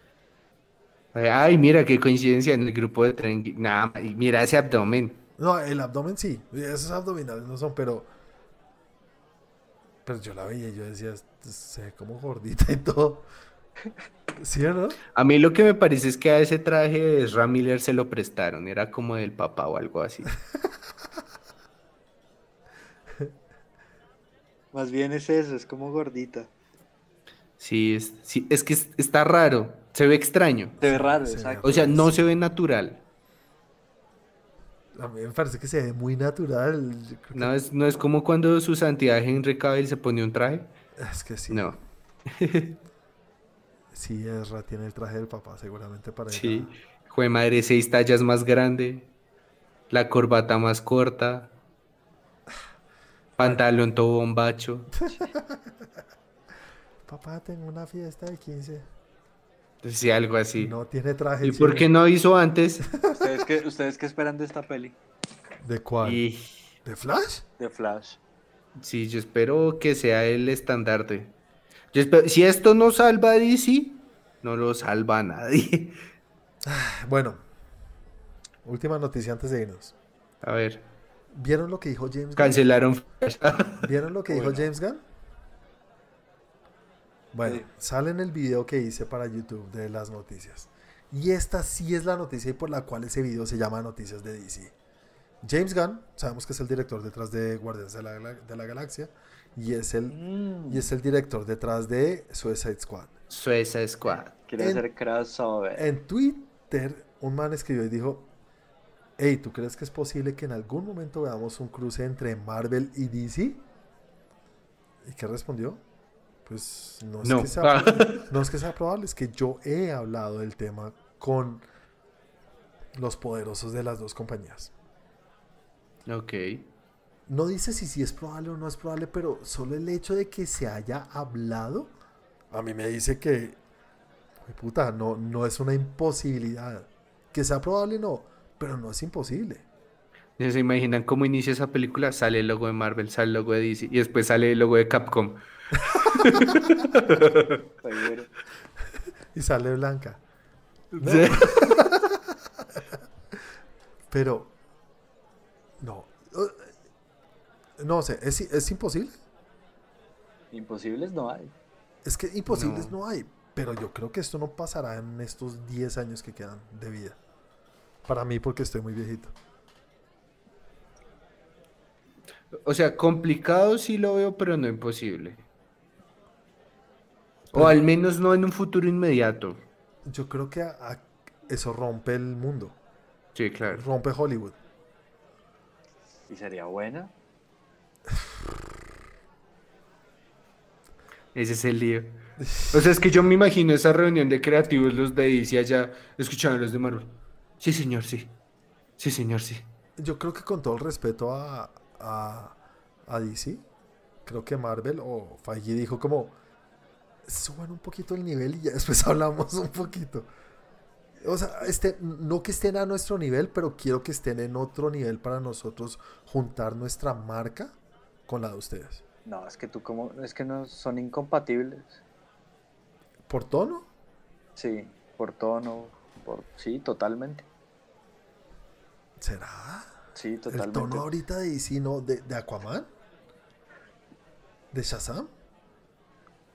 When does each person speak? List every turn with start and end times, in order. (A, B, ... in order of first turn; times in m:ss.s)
0:01.1-0:05.2 A
0:05.4-0:08.1 B
0:10.0-0:13.3 B
0:14.4-0:15.0 B
0:15.1-0:20.3 A
0:24.7-0:26.5 C
0:27.6-0:30.8 A
0:30.8-0:32.3 B
0:30.8-0:31.8 C
0:31.6-0:33.0 A
0:34.9-0:37.5 B
0:37.3-0:40.7 A
0:41.0-0:41.7 B
0:41.5-0:42.8 A
0:43.9-0:46.7 B
0:46.3-0:49.1 A
0:49.9-0:51.5 A
0:53.4-0:54.9 A
0:55.0-0:55.7 B
0:57.0-0:58.9 B
0:59.8-1:00.7 A
1:00.6-1:01.9 B
1:01.4-1:02.8 A
1:02.9-1:03.4 B
1:03.1-1:05.0 C
1:05.6-1:06.2 B
1:06.0-1:06.6 A
1:06.8-1:07.4 B
1:07.6-1:08.2 C
1:08.8-1:11.3 A
1:11.9-1:16.0 A
1:16.6-1:17.4 B
1:18.6-1:19.9 B
1:20.4-1:20.9 A
1:21.3-1:22.6 B
1:22.4-1:23.8 A
1:23.8-1:25.0 B
1:24.3-1:24.7 C
1:27.3-1:34.7 B
1:35.4-1:40.2 B
1:40.1-1:40.9 C
1:40.7-1:43.1 B
1:43.3-1:44.3 A
1:44.5-1:45.8 C
1:44.6-1:44.8 B
1:45.8-1:48.3 B
1:49.2-1:53.6 B
1:55.0-1:55.8 B
1:56.4-2:01.6 B
1:57.2-1:58.3 A
2:02.9-2:04.7 B
2:06.1-2:06.7 A
2:07.3-2:11.9 B
2:12.5-2:13.6 B
2:14.4-2:19.6 B
2:20.4-2:27.6 A
2:27.8-2:28.3 C
2:29.3-2:30.2 B
2:30.9-2:31.7 A
2:31.0-2:32.8 B
2:34.1-2:34.5 B
2:35.8-2:36.7 B
2:37.8-2:39.2 B
2:40.5-2:41.5 C
2:42.0-2:47.2 B
2:42.5-2:42.9 A
2:48.0-2:49.3 B
2:52.6-2:55.4 A
2:57.5-2:59.6 A
2:57.5-2:57.8 B
3:00.0-3:02.8 B
3:03.3-3:03.8 A
3:03.7-3:04.6 B
3:06.3-3:07.1 C
3:11.3-3:18.3 A
3:12.4-3:13.0 B
3:19.0-3:19.7 A
3:20.0-3:23.6 B
3:24.2-3:26.4 B
3:27.2-3:30.3 B
3:31.2-3:39.0 B
3:39.2-3:42.0 C
3:43.3-3:43.9 B
3:44.6-3:47.4 C
3:49.2-3:50.0 B
3:50.2-3:51.1 C
3:50.5-3:52.9 B
3:54.7-3:55.3 B